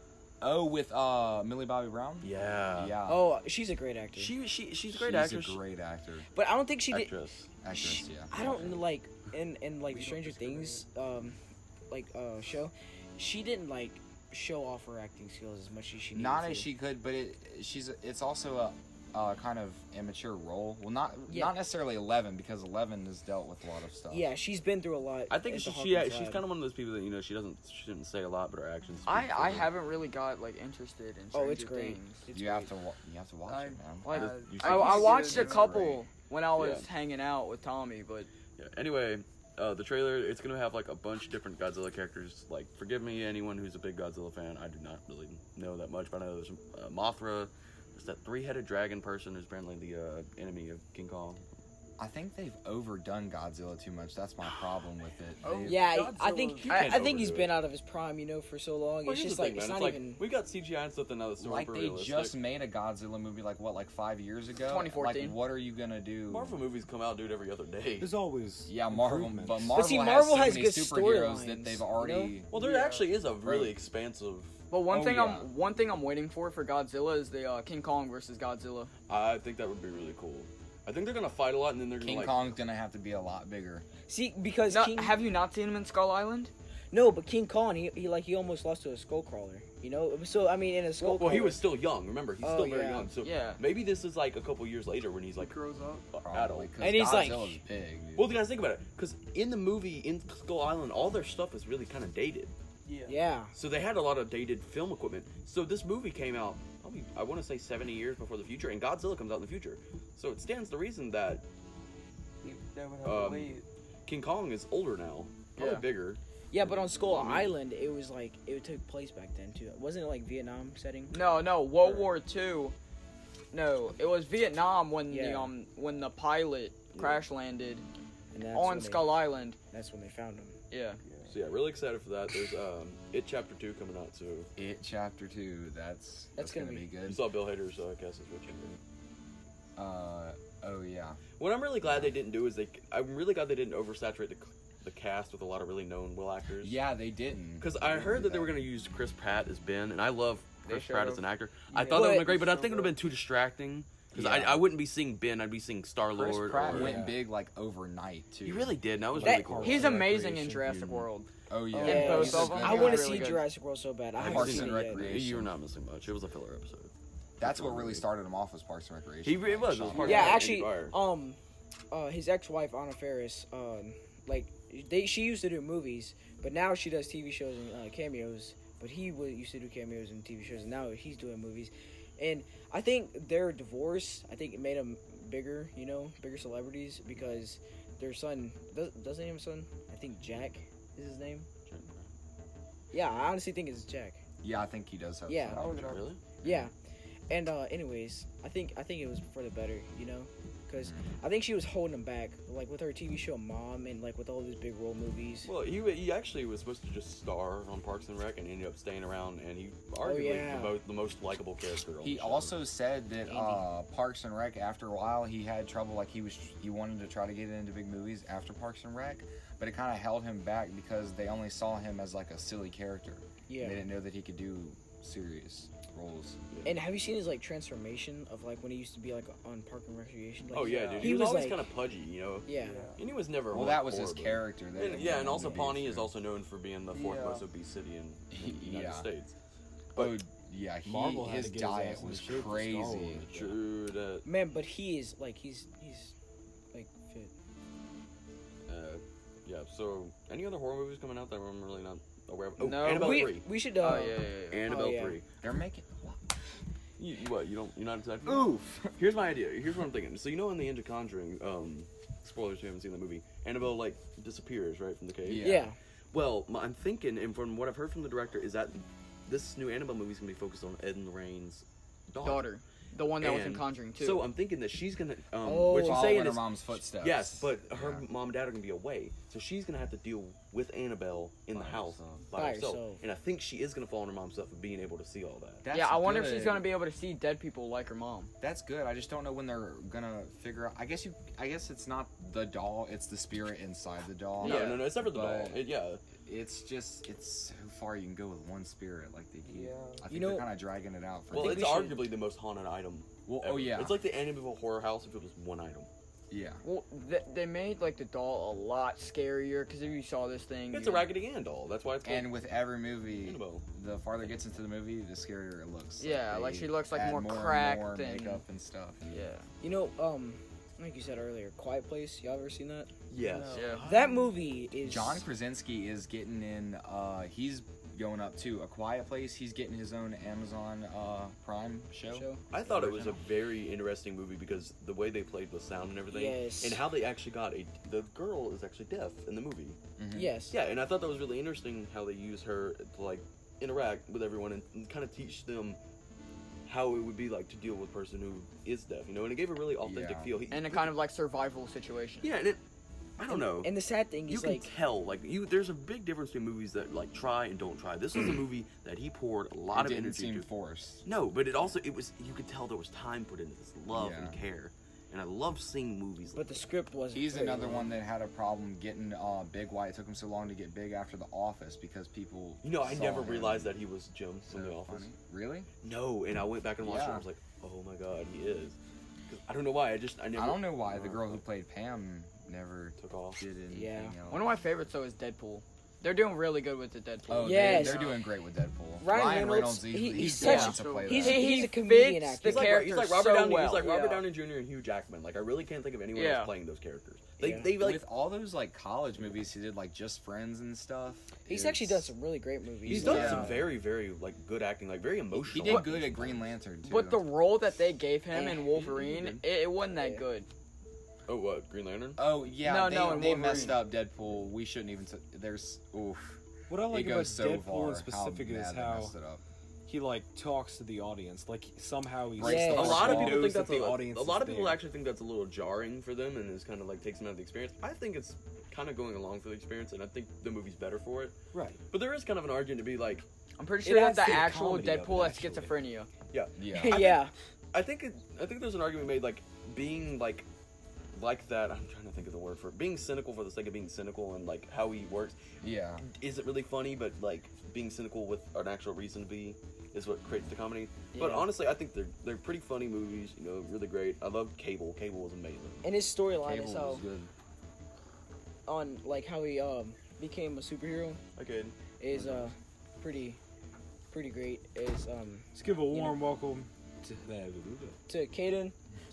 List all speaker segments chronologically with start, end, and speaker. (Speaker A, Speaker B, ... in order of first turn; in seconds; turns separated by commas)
Speaker A: 0.4-3.3, Speaker B: 2.2-3.0, Speaker C: 3.1-4.3, Speaker B: 4.2-5.6, Speaker A: 4.9-6.3, Speaker C: 6.3-7.1, Speaker B: 6.9-7.5, Speaker A: 7.6-8.8, Speaker C: 7.7-11.4, Speaker B: 8.4-8.8, Speaker D: 9.9-10.9, Speaker C: 11.9-16.7, Speaker A: 16.1-24.3, Speaker C: 21.3-21.6, Speaker C: 24.1-26.4, Speaker B: 25.3-29.7, Speaker E: 29.1-32.2, Speaker C: 31.3-32.7, Speaker A: 32.3-34.2, Speaker D: 33.5-35.6, Speaker C: 34.0-35.7, Speaker B: 34.1-35.3, Speaker E: 34.7-38.3, Speaker A: 35.3-36.0, Speaker B: 36.6-36.9, Speaker B: 38.6-51.4, Speaker A: 52.0-56.0, Speaker D: 55.4-57.0, Speaker C: 55.7-60.2, Speaker B: 56.7-57.6, Speaker B: 59.0-62.4, Speaker A: 61.4-66.6, Speaker E: 64.7-65.4, Speaker B: 66.3-68.1, Speaker F: 68.0-69.7, Speaker A: 68.7-72.5, Speaker C: 69.7-72.3, Speaker B: 72.5-74.5, Speaker D: 72.5-73.1, Speaker A: 73.4-73.8, Speaker E: 74.7-78.9, Speaker A: 74.9-75.5, Speaker B: 79.1-82.4, Speaker A: 82.0-83.9, Speaker C: 84.1-85.1, Speaker E: 84.7-86.5, Speaker C: 86.9-91.6, Speaker B: 91.0-96.7, Speaker C: 92.4-93.1, Speaker E: 93.2-93.6, Speaker D: 95.3-96.0, Speaker A: 96.2-98.4, Speaker C: 96.8-97.6, Speaker B: 98.2-102.5, Speaker D: 102.8-103.2, Speaker C: 103.0-103.5, Speaker B: 103.5-111.4, Speaker D: 112.4-113.7, Speaker B: 113.0-117.5, Speaker E: 115.6-115.8, Speaker C: 116.5-121.1, Speaker E: 121.1-122.7, Speaker B: 121.8-122.1, Speaker E: 123.5-127.8, Speaker C: 125.1-125.5, Speaker B: 127.0-127.2, Speaker C: 128.3-130.6, Speaker E: 128.5-129.6, Speaker E: 130.7-131.0, Speaker B: 131.3-134.5, Speaker A: 134.6-137.2, Speaker C: 136.4-136.9, Speaker B: 137.1-138.8, Speaker A: 139.8-141.2, Speaker B: 141.4-146.8, Speaker A: 141.8-142.1, Speaker A: 146.6-148.6, Speaker B: 147.6-157.1, Speaker E: 150.7-151.2, Speaker D: 151.7-153.0, Speaker C: 151.9-152.4, Speaker A: 154.1-154.6, Speaker A: 156.1-158.8, Speaker F: 156.7-157.2, Speaker B: 158.4-160.1, Speaker F: 159.1-160.9, Speaker C: 159.2-159.5, Speaker E: 159.6-161.3, Speaker B: 160.6-161.0, Speaker A: 161.5-163.4, Speaker C: 161.7-165.1, Speaker E: 161.8-163.4, Speaker B: 164.2-168.1, Speaker A: 164.2-165.5, Speaker A: 167.4-170.4, Speaker B: 169.2-170.9, Speaker C: 170.0-171.4, Speaker C: 171.9-191.5, Speaker B: 191.7-192.1, Speaker C: 192.9-194.2, Speaker A: 194.4-196.7, Speaker C: 195.3-195.7, Speaker B: 195.5-196.2, Speaker C: 196.4-196.7, Speaker C: 197.3-205.5, Speaker B: 205.4-212.6, Speaker C: 210.0-210.8, Speaker A: 212.0-226.4, Speaker C: 213.3-213.7, Speaker C: 223.5-223.8, Speaker B: 226.5-226.8, Speaker C: 226.6-231.7, Speaker B: 230.5-239.3, Speaker D: 230.6-231.1, Speaker C: 232.4-232.9, Speaker D: 232.5-233.0, Speaker A: 233.5-236.1, Speaker D: 236.9-237.5, Speaker A: 238.3-239.1, Speaker A: 239.9-243.3, Speaker F: 240.8-243.6, Speaker B: 243.3-244.3, Speaker C: 244.2-246.1, Speaker C: 246.7-247.3, Speaker B: 248.7-253.4, Speaker E: 252.6-254.8, Speaker C: 252.8-255.2, Speaker B: 254.5-255.2, Speaker A: 255.4-256.2, Speaker B: 257.0-265.6, Speaker A: 258.3-258.9, Speaker A: 265.2-265.7, Speaker C: 265.4-265.8, Speaker B: 266.1-272.5, Speaker E: 272.2-274.3, Speaker B: 273.2-285.6, Speaker C: 275.4-276.2, Speaker A: 275.7-278.1, Speaker A: 281.5-282.3, Speaker C: 282.4-283.0, Speaker A: 285.6-286.7, Speaker E: 285.7-288.3, Speaker A: 288.4-295.6, Speaker B: 294.4-296.0, Speaker E: 294.4-294.8, Speaker A: 296.1-301.9, Speaker D: 299.4-300.1, Speaker C: 300.1-300.5, Speaker C: 301.3-302.0, Speaker B: 301.3-305.9, Speaker A: 303.3-304.0, Speaker A: 306.3-306.6, Speaker E: 306.6-311.1, Speaker B: 310.7-312.4, Speaker A: 312.0-319.3, Speaker B: 313.2-313.6, Speaker E: 316.0-318.4, Speaker E: 319.1-319.4, Speaker C: 319.6-322.9, Speaker B: 323.1-323.8, Speaker D: 323.2-324.4, Speaker E: 323.5-323.9, Speaker C: 323.8-325.2, Speaker A: 324.8-333.2, Speaker C: 332.1-332.4, Speaker B: 332.5-339.8, Speaker C: 336.1-336.8, Speaker A: 340.0-340.4, Speaker C: 340.1-340.6, Speaker B: 340.5-345.8, Speaker B: 346.7-350.9, Speaker A: 349.8-350.3, Speaker E: 350.5-352.3, Speaker B: 352.2-352.6, Speaker B: 353.2-353.7, Speaker C: 353.2-354.7, Speaker B: 354.3-360.5, Speaker A: 359.7-361.1, Speaker B: 361.1-366.7, Speaker A: 363.9-364.4, Speaker C: 366.4-367.9, Speaker A: 367.1-373.8, Speaker B: 372.6-375.1, Speaker A: 374.4-375.7, Speaker B: 375.8-381.4, Speaker A: 376.8-377.3, Speaker A: 380.3-384.4, Speaker B: 383.0-383.4, Speaker C: 383.7-384.2, Speaker E: 384.3-388.1, Speaker A: 387.3-391.6, Speaker C: 387.4-388.1, Speaker C: 389.0-392.8, Speaker E: 390.4-394.2, Speaker D: 390.7-391.1, Speaker B: 392.4-398.1, Speaker E: 396.1-396.5, Speaker C: 397.4-397.7, Speaker A: 397.8-402.1, Speaker C: 401.5-403.7, Speaker B: 402.8-406.4, Speaker A: 402.9-403.7, Speaker A: 405.4-407.3, Speaker E: 405.6-405.9, Speaker E: 406.8-410.5, Speaker C: 408.3-408.8, Speaker C: 409.9-410.2, Speaker B: 411.3-412.2, Speaker A: 412.2-419.4, Speaker E: 412.6-413.8, Speaker F: 416.7-419.1, Speaker F: 419.9-424.8, Speaker A: 422.4-423.4, Speaker C: 422.4-423.4, Speaker B: 422.6-431.4, Speaker F: 431.5-431.8, Speaker B: 431.9-433.3, Speaker E: 433.6-436.1, Speaker F: 433.8-435.7, Speaker B: 436.3-440.5, Speaker A: 436.6-437.1, Speaker C: 436.7-437.3, Speaker B: 441.1-445.4, Speaker A: 445.6-446.1, Speaker B: 446.0-455.8, Speaker E: 451.1-451.4, Speaker C: 455.8-457.0, Speaker A: 456.4-457.3, Speaker C: 458.7-461.2, Speaker B: 461.4-461.8, Speaker C: 462.0-463.4, Speaker A: 462.1-462.4, Speaker C: 464.1-466.2, Speaker F: 465.6-468.0, Speaker C: 468.1-468.7